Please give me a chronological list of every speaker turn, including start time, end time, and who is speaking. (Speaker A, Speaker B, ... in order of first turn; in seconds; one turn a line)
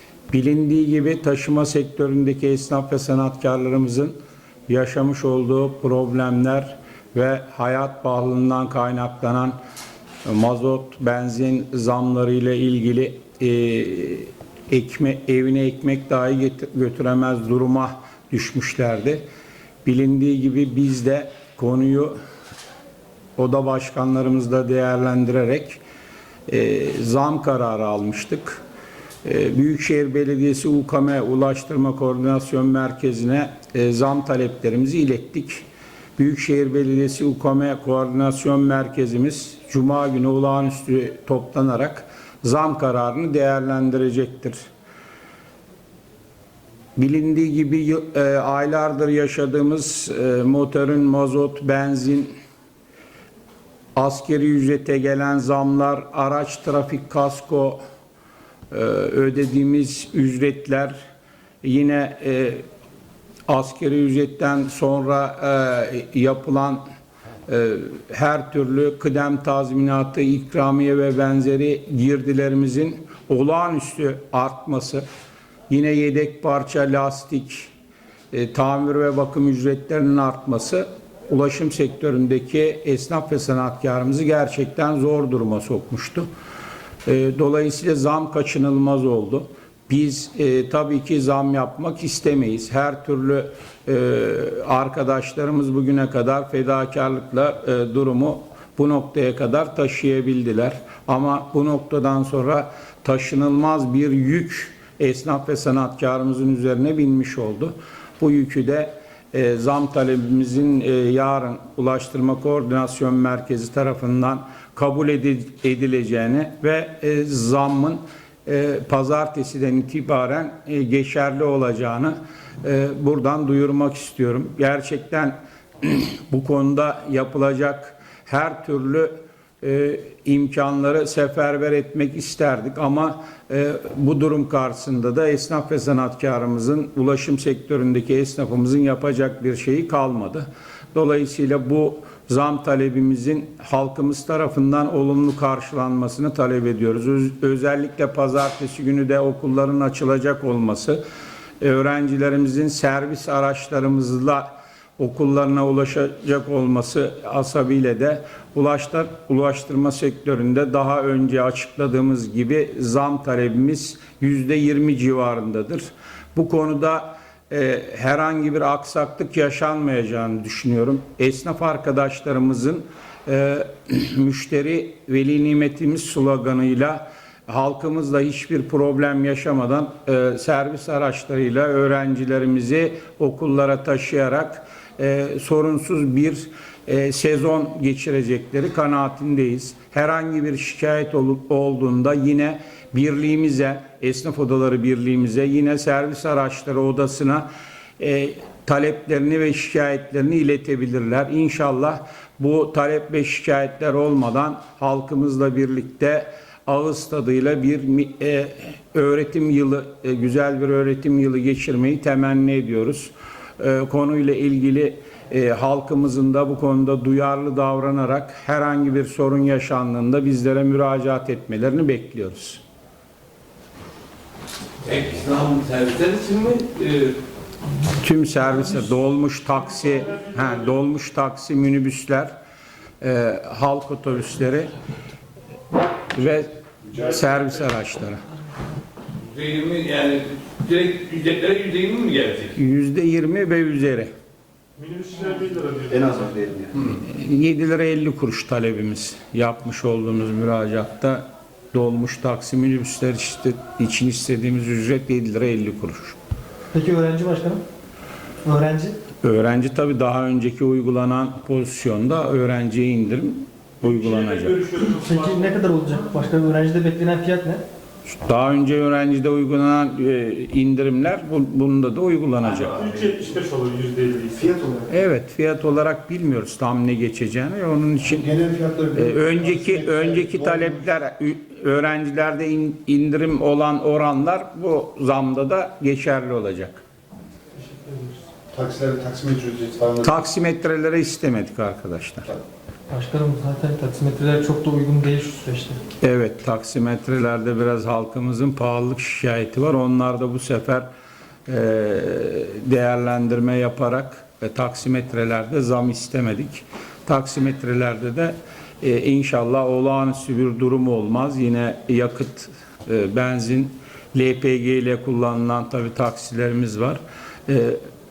Speaker A: 0.3-4.2
Speaker A: 4.7-9.6
Speaker A: 10.2-19.2
Speaker A: 19.9-22.1
Speaker A: 23.4-25.8
Speaker A: 26.5-28.6
Speaker A: 29.2-35.6
Speaker A: 36.2-44.6
Speaker A: 47.0-52.3
Speaker A: 54.0-57.8
Speaker A: 58.7-61.0
Speaker A: 61.6-62.6
Speaker A: 63.5-66.8
Speaker A: 67.5-75.0
Speaker A: 75.7-77.7
Speaker A: 78.3-86.3
Speaker A: 87.0-129.1
Speaker A: 129.6-151.0
Speaker A: 151.6-154.5
Speaker A: 155.0-197.5
Speaker A: 198.0-222.6
Speaker B: 224.8-227.2
Speaker A: 228.0-232.3
Speaker A: 233.0-234.7
Speaker A: 236.1-238.2
Speaker B: 239.3-242.6
Speaker A: 242.6-244.1
Speaker C: 244.8-246.5
Speaker D: 245.9-246.7
Speaker A: 246.8-256.2
Speaker E: 256.7-257.6
Speaker E: 258.4-259.0
Speaker A: 259.2-264.7
Speaker C: 263.8-265.6
Speaker E: 265.0-267.6
Speaker A: 268.1-272.8
Speaker C: 272.4-274.5
Speaker D: 274.4-274.9
Speaker A: 274.9-278.4
Speaker D: 278.2-280.8
Speaker A: 278.9-286.8
Speaker E: 287.6-288.2
Speaker D: 288.5-290.2
Speaker A: 290.0-292.3
Speaker E: 292.9-295.8
Speaker A: 296.0-300.9
Speaker A: 301.5-317.8